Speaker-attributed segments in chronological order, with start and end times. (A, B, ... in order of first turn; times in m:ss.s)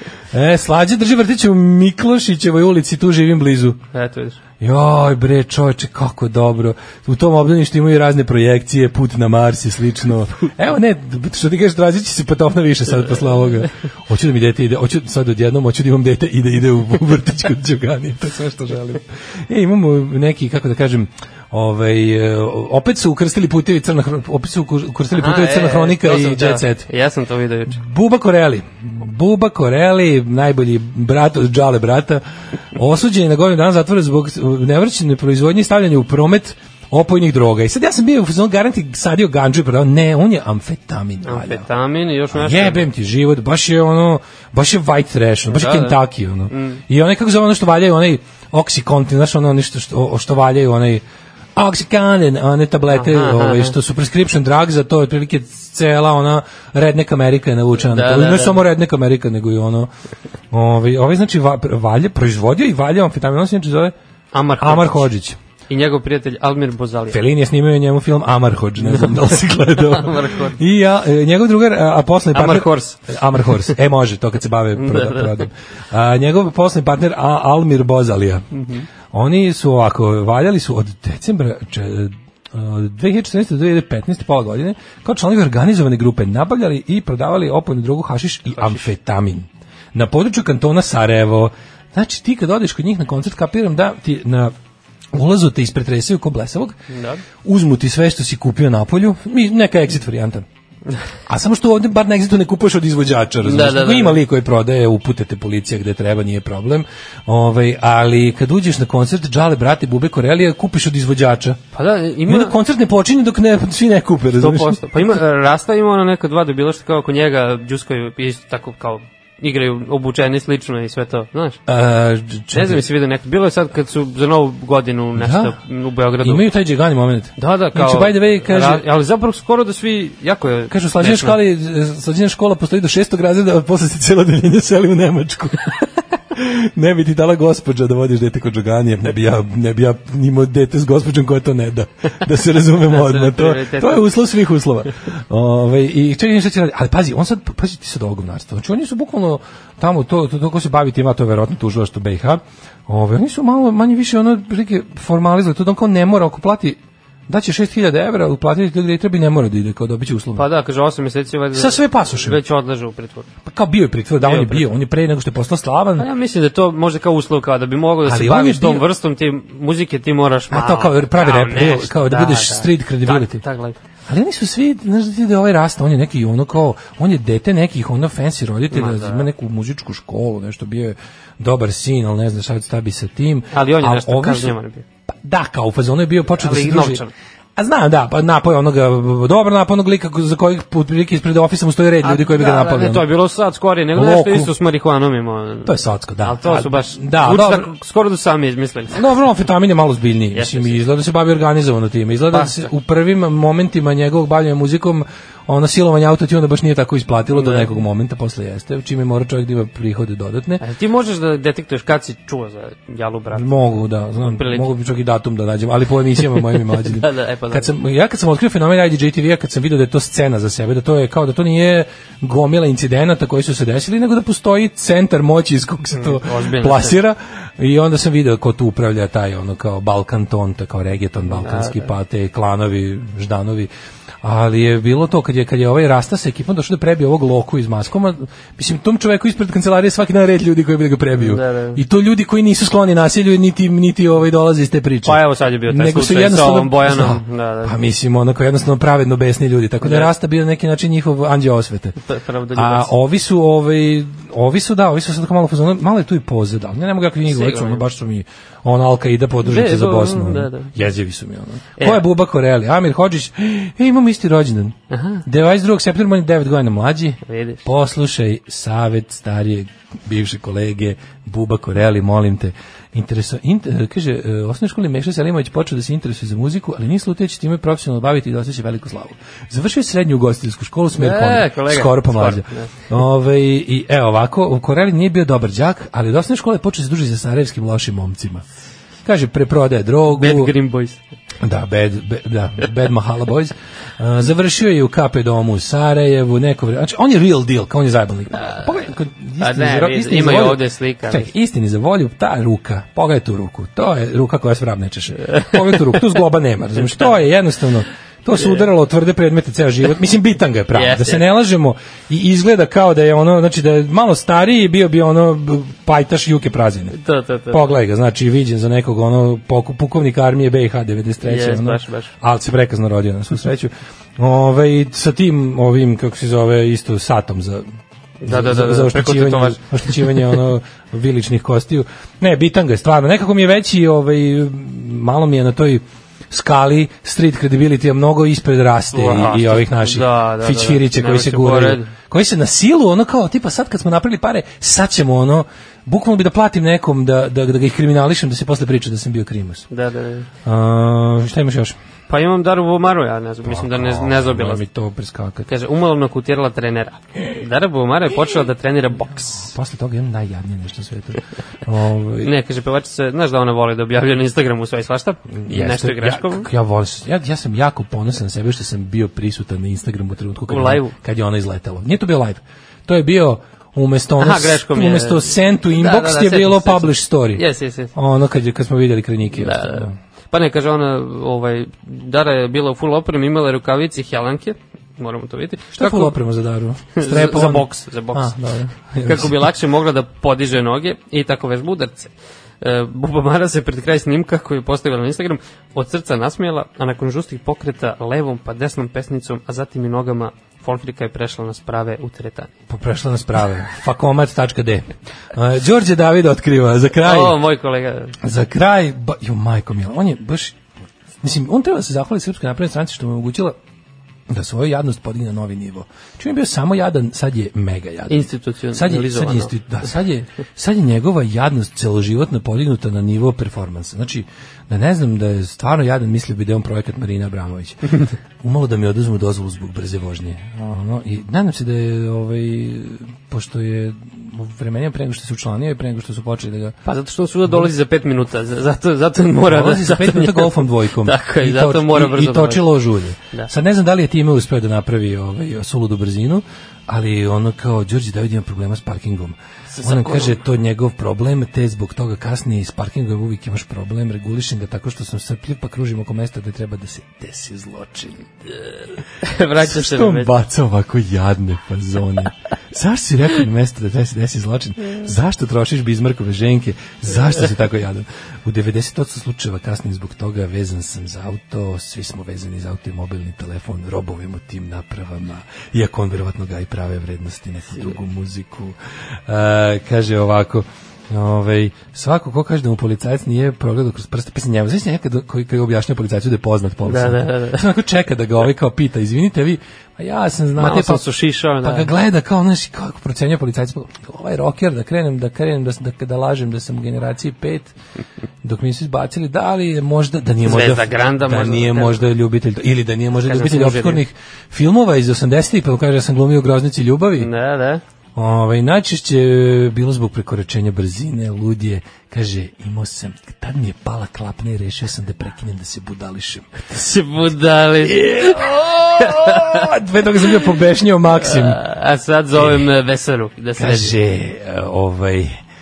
0:00.3-0:03.8 A
0:03.9-0:04.4 B
0:04.6-0:26.9 A
0:25.1-0:27.8 B
0:27.7-0:41.7 A
0:41.2-0:42.8 B
0:42.3-0:51.0 A
0:45.5-0:46.0 B
0:46.5-0:46.8 B
0:51.5-0:59.9 A
0:52.9-0:53.8 B
0:57.8-0:58.6 B
1:00.5-1:03.9 A
1:04.3-1:05.0 B
1:04.6-1:05.4 A
1:05.7-1:07.2 B
1:07.1-1:18.4 A
1:08.8-1:10.6 B
1:12.3-1:13.7 B
1:14.8-1:15.5 B
1:18.5-1:18.8 B
1:19.1-1:34.5 A
1:28.6-1:28.8 B
1:35.1-1:36.7 A
1:36.9-1:37.2 B
1:37.4-1:40.5 A
1:41.3-1:51.6 A
1:43.4-1:44.2 B
1:51.7-1:52.5 B
1:52.2-1:55.1 A
1:54.4-2:01.6 B
2:01.6-2:02.8 A
2:02.5-2:06.5 B
2:05.2-2:05.6 A
2:06.2-2:08.8 A
2:07.4-2:11.4 B
2:10.7-2:40.5 A
2:22.8-2:24.1 B
2:40.4-2:43.3 B
2:41.5-2:42.4 A
2:43.4-2:46.1 A
2:44.2-2:44.8 B
2:46.0-2:53.8 B
2:48.0-2:48.9 A
2:50.5-2:53.4 A
2:54.1-3:04.5 A
2:58.7-2:59.3 B
3:03.5-3:04.8 B
3:05.1-3:07.0 A
3:06.4-3:07.1 B
3:07.6-3:13.1 A
3:12.0-3:19.0 B
3:13.9-3:14.5 A
3:15.6-3:17.7 A
3:18.9-3:30.6 A
3:20.3-3:20.8 B
3:22.3-3:22.7 B
3:27.3-3:27.7 B
3:30.6-3:33.6 B
3:33.3-3:53.7 A
3:34.2-3:34.7 B
3:36.7-3:37.7 B
3:45.9-3:47.0 B
3:51.3-3:51.9 B
3:54.2-4:12.0 A
4:01.2-4:01.8 B
4:05.0-4:07.7 B
4:09.8-4:10.1 B
4:12.0-4:12.9 B
4:12.5-4:48.4 A
4:17.2-4:17.8 B
4:19.4-4:20.7 B
4:21.8-4:22.0 B
4:24.9-4:25.2 B
4:27.2-4:27.6 B
4:41.0-4:42.7 B
4:49.0-4:50.5 A
4:50.1-4:51.0 B
4:51.4-5:17.0 A
4:59.4-5:01.3 B
5:10.7-5:11.2 B
5:16.9-5:17.6 B
5:17.5-5:27.7 A
5:21.2-5:22.1 B
5:28.2-5:30.4 B
5:28.2-5:49.6 A
5:38.9-5:41.9 B
5:49.7-5:50.3 B
5:50.4-5:51.8 A
5:52.1-5:54.6 B
5:53.4-5:55.5 A
5:55.5-5:59.5 B
5:59.3-6:02.3 A
6:02.2-6:06.5 B
6:05.3-6:20.0 A
6:10.5-6:10.9 B
6:14.2-6:17.9 B
6:19.3-6:26.1 B
6:25.7-6:29.4 A
6:26.9-6:28.3 B
6:29.0-6:42.5 B
6:42.7-6:47.4 A
6:47.0-6:48.2 B
6:48.2-6:50.6 A
6:51.2-6:53.6 A
6:54.3-7:07.9 A
6:58.1-6:59.5 B
7:08.4-7:16.8 A
7:16.8-7:22.7 B
7:19.4-7:38.3 A
7:29.7-7:30.4 B
7:39.2-7:40.3 B
7:39.6-8:11.1 A
8:06.8-8:07.6 B
8:10.6-8:11.9 B
8:11.6-8:17.7 A
8:18.4-8:27.3 A
8:20.4-8:22.1 B
8:23.2-8:24.0 B
8:27.2-8:27.8 B
8:28.1-8:36.6 A
8:36.7-8:38.4 B
8:37.8-8:41.6 A
8:39.0-8:39.7 B
8:41.2-8:43.9 B
8:42.3-8:42.7 A
8:43.6-8:45.4 A